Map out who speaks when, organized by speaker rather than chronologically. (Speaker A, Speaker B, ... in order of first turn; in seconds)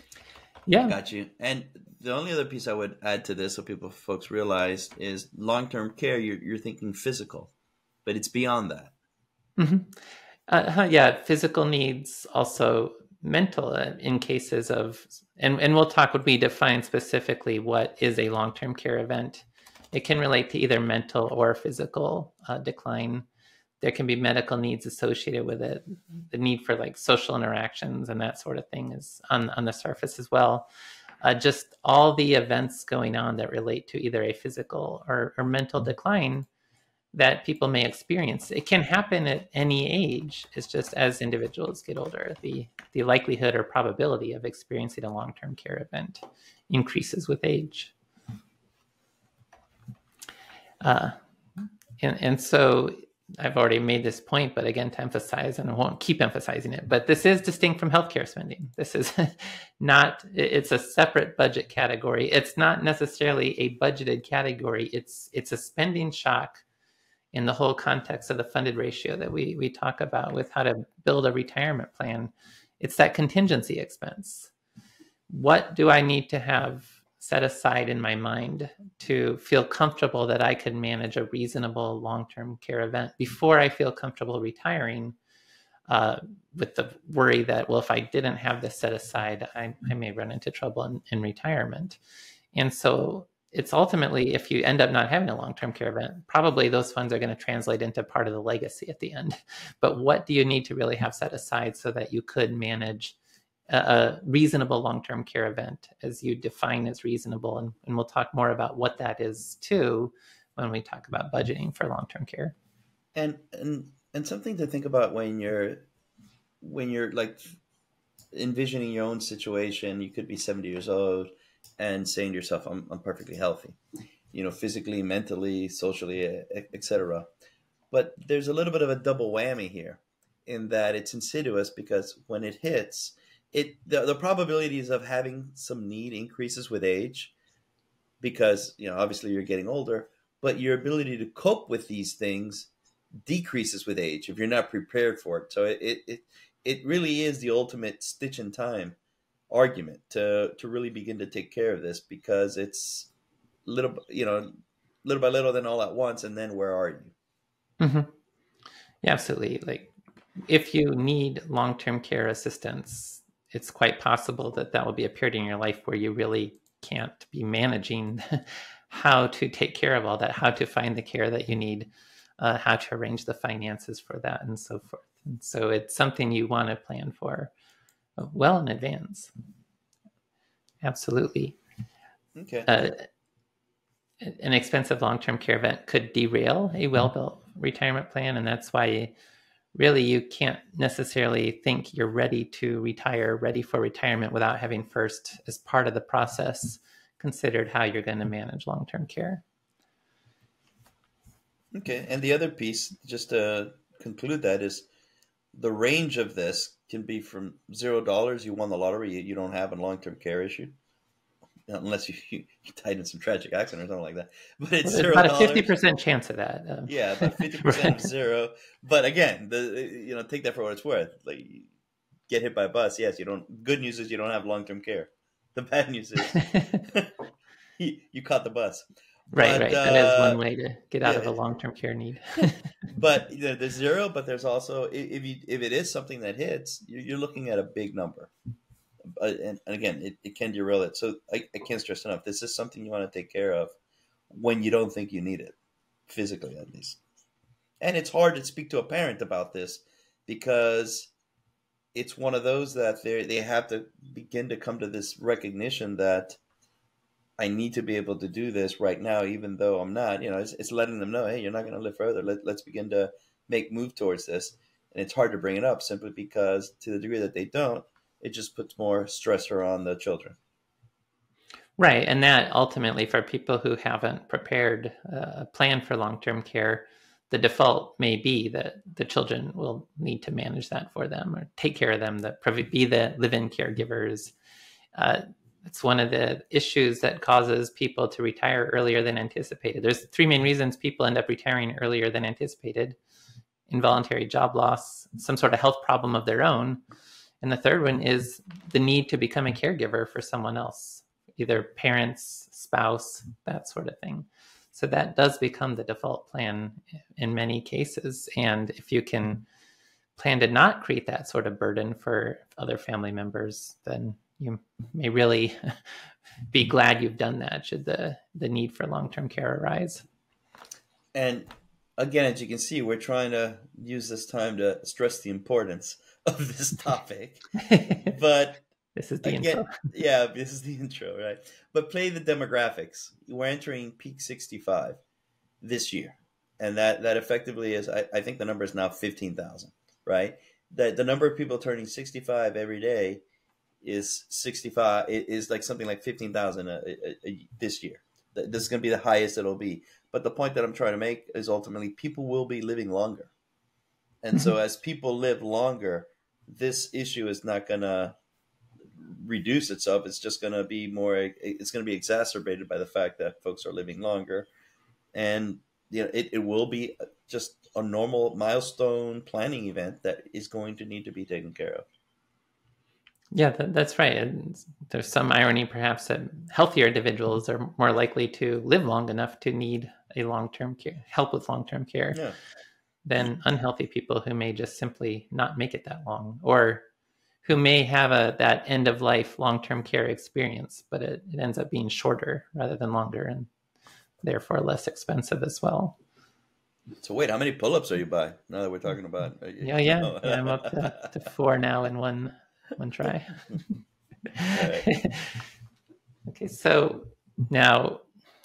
Speaker A: 0.7-1.0, 9.6-9.9, 10.5-23.2, 23.8-30.7, 31.2-36.5, 37.1-47.9, 50.8-51.2, 52.0-66.6, 67.3-74.5, 75.3-85.2, 85.9-92.0, 92.5-103.2, 103.7-112.5, 157.8-158.1, 159.0-159.9, 160.5-177.5, 178.2-179.3, 180.8-181.6, 182.7-183.0, 184.2-189.1, 189.8-199.4, 214.8-218.0, 226.3-226.8, 229.3-232.6, 271.8-284.3, 284.9-293.0, 293.7-296.8, 297.4-309.4, 310.2-315.7, 316.5-320.0, 327.6-328.1, 328.9-329.7, 373.3-382.2, 383.1-386.8, 387.4-393.5, 394.2-395.9, 399.6-403.6, 404.4-405.4, 406.3-408.0
Speaker B: 0.8-7.5, 8.0-8.9, 113.1-115.9, 116.6-117.6, 118.3-123.8, 124.3-127.3, 127.9-137.3, 138.2-142.7, 143.2-148.9, 149.5-153.1, 153.6-154.5, 155.0-157.1, 182.4-182.7, 201.7-204.9, 205.5-210.8, 211.7-215.7, 216.9-221.7, 222.3-227.1, 227.8-230.4, 231.0-231.3, 232.9-238.3, 239.1-243.7, 244.3-245.6, 246.1-247.0, 247.8-251.1, 251.9-256.4, 257.4-270.4, 321.1-328.6, 329.2-335.0, 335.6-343.2, 343.8-353.3, 354.2-358.1, 358.9-364.5, 365.1-371.9, 397.0-400.9, 404.4-404.9